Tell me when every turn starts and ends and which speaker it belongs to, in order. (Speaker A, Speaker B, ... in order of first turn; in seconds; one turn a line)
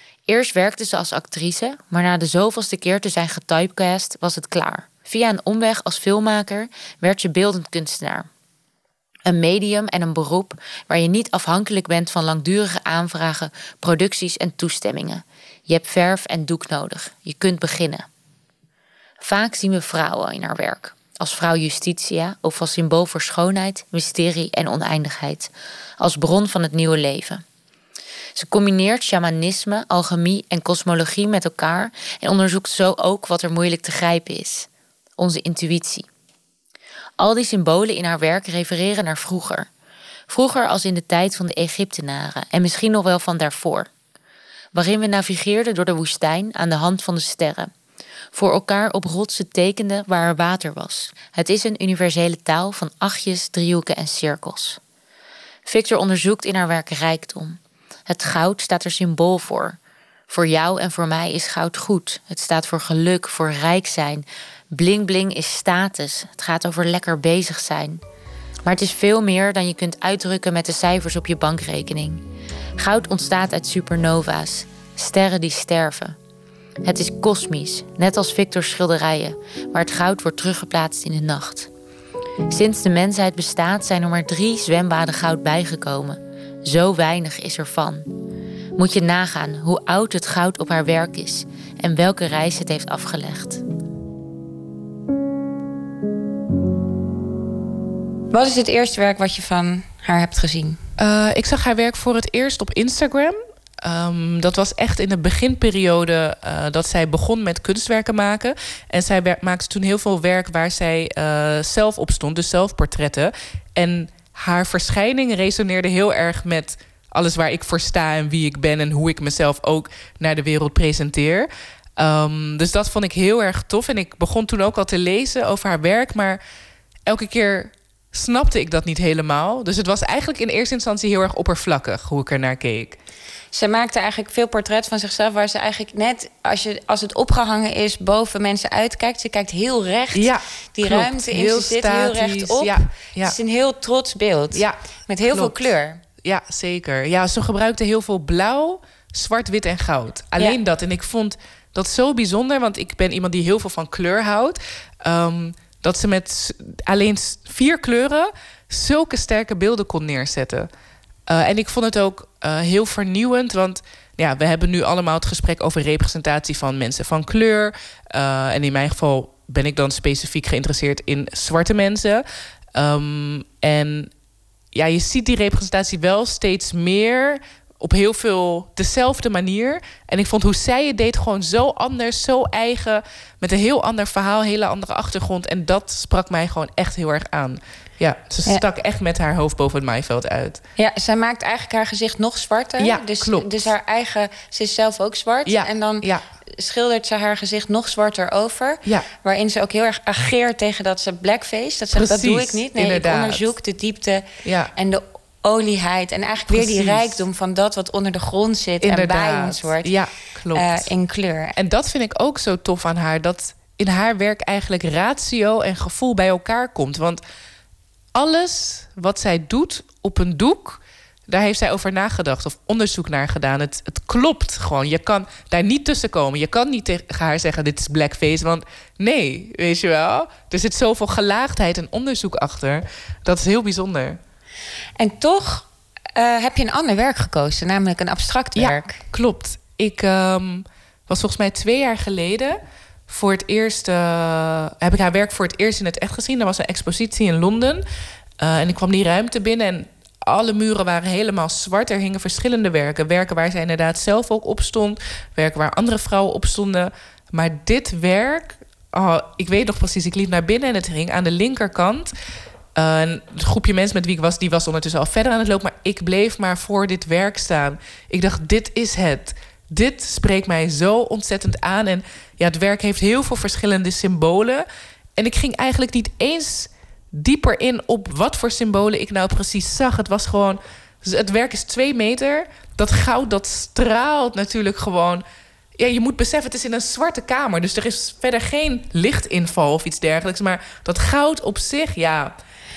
Speaker A: 0.3-8.3
Speaker A: 9.2-18.1
Speaker A: 19.2-27.4
Speaker A: 28.3-36.1
Speaker A: 37.2-39.7
Speaker A: 40.3-43.9
Speaker A: 44.7-47.7
Speaker A: 48.3-54.8
Speaker A: 55.6-59.8
Speaker A: 60.3-68.0
Speaker A: 68.6-72.2
Speaker A: 72.8-76.2
Speaker A: 76.8-81.7
Speaker A: 82.5-88.0
Speaker A: 88.8-93.6
Speaker B: 98.3-100.8
Speaker C: 101.0-126.4
Speaker C: 127.1-133.0
Speaker B: 133.5-146.0
Speaker C: 140.1-143.3
Speaker C: 144.5-145.6
Speaker C: 146.2-160.7
Speaker C: 161.3-172.2
Speaker C: 172.7-174.1
Speaker C: 174.7-190.6
Speaker B: 190.8-210.0
Speaker C: 192.8-193.7
Speaker C: 195.4-196.2
Speaker C: 201.9-203.5
Speaker C: 204.4-204.7
Speaker C: 206.5-207.2
Speaker C: 208.8-210.9
Speaker B: 210.5-211.6
Speaker C: 211.6-217.2
Speaker C: 218.1-234.2
Speaker B: 235.0-239.0
Speaker C: 238.6-247.8
Speaker C: 248.4-262.1
Speaker C: 262.8-274.6
Speaker C: 275.2-285.2
Speaker C: 285.8-292.3